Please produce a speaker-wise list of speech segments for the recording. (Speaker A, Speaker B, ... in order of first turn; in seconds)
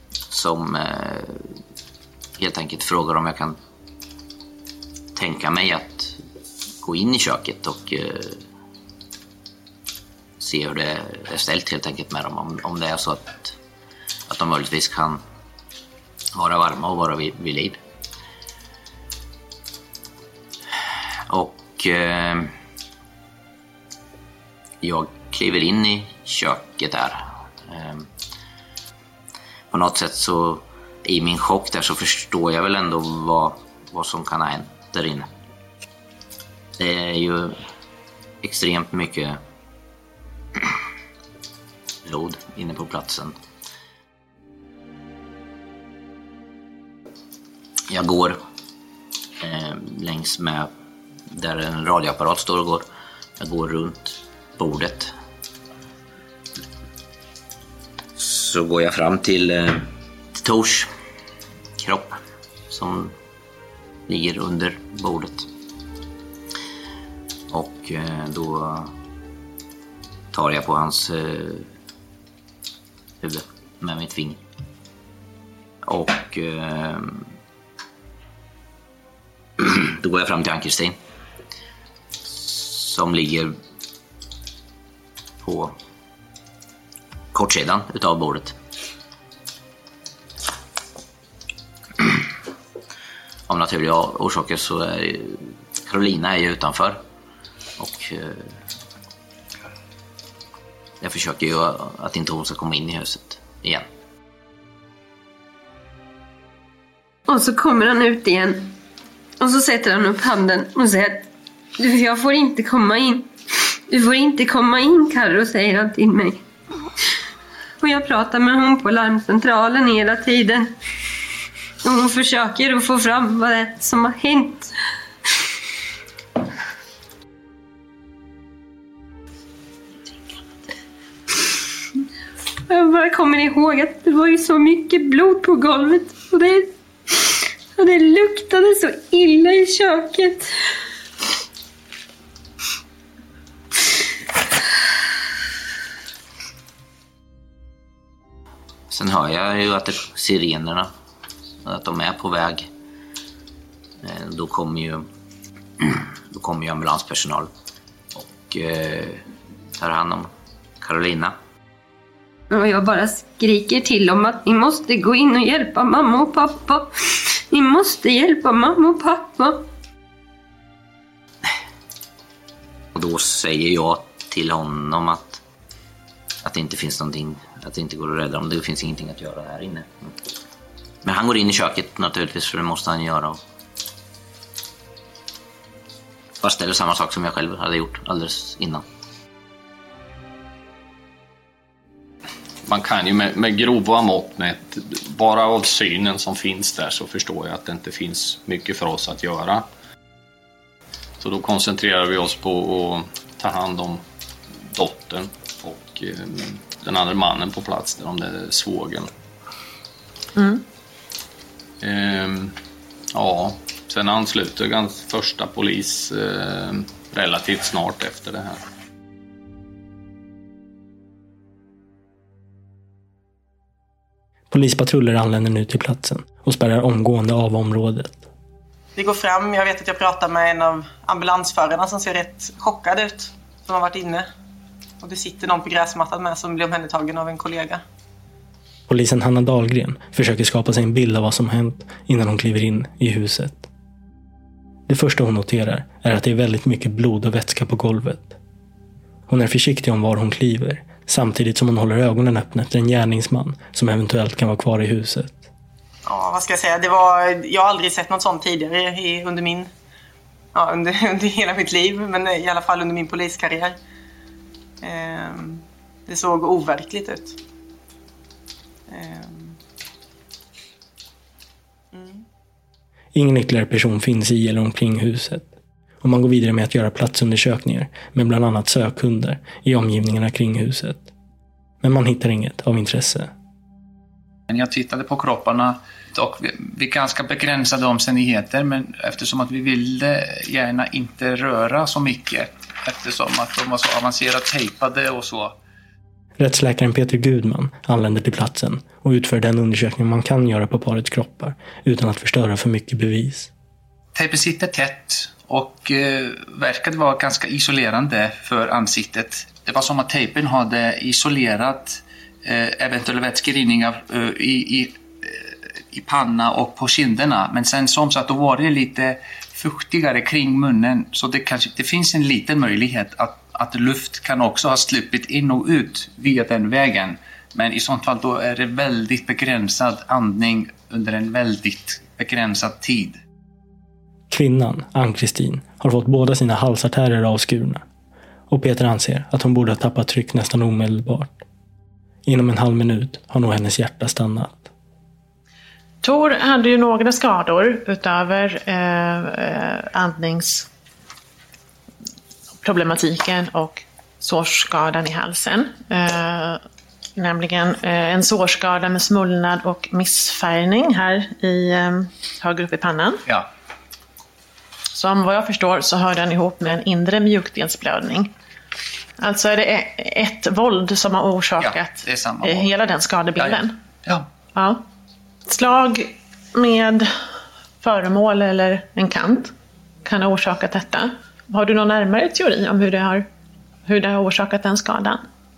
Speaker A: 0.3-1.6, 2.4-3.6, 5.1-6.2, 6.8-8.4, 10.4-13.6, 14.3-15.2, 16.3-17.8, 21.3-22.5, 24.8-28.1, 29.7-35.3, 36.8-37.6, 38.4-39.4, 42.0-43.4, 47.9-48.4, 49.4-50.7, 51.3-52.9, 53.4-55.1, 58.2-60.9, 61.8-62.2, 62.7-63.1, 64.1-65.5, 67.5-68.9, 70.3-71.7, 73.2-74.4, 75.8-77.3, 79.6-81.0, 82.2-83.6, 85.4-85.8, 87.3-88.5, 93.5-97.0, 97.8-98.6, 101.0-103.8, 148.9-150.9, 151.6-152.7, 154.0-155.1, 155.8-157.5, 158.1-159.2, 159.8-160.3, 160.8-161.3, 172.9-175.4, 176.4-180.1, 181.0-183.4, 186.4-188.8
Speaker B: 107.3-108.7, 109.4-113.3, 113.9-116.4, 117.8-120.7, 121.8-124.7, 132.7-140.5, 162.5-169.6
Speaker C: 192.7-199.7, 201.2-204.0, 204.7-209.1, 211.8-212.5, 213.1-218.6
Speaker D: 210.3-210.6, 346.0-350.7, 352.6-356.6, 357.2-363.2, 364.9-368.3, 369.2-373.8, 374.5-374.8, 375.5-377.1, 377.8-379.5, 380.0-383.2, 383.9-385.2
Speaker E: 224.5-228.2, 238.9-243.7, 244.9-248.4, 249.3-255.4, 273.1-275.5, 276.0-281.1, 281.8-283.3, 296.4-303.5, 334.3-337.8, 338.5-341.4, 342.2-344.7
Speaker F: 228.9-234.3, 235.0-237.8, 256.1-259.7, 260.5-263.8, 264.8-267.4, 268.9-269.6, 271.9-272.2
Speaker G: 284.5-295.6, 304.1-333.2, 371.6-372.8, 373.4-374.3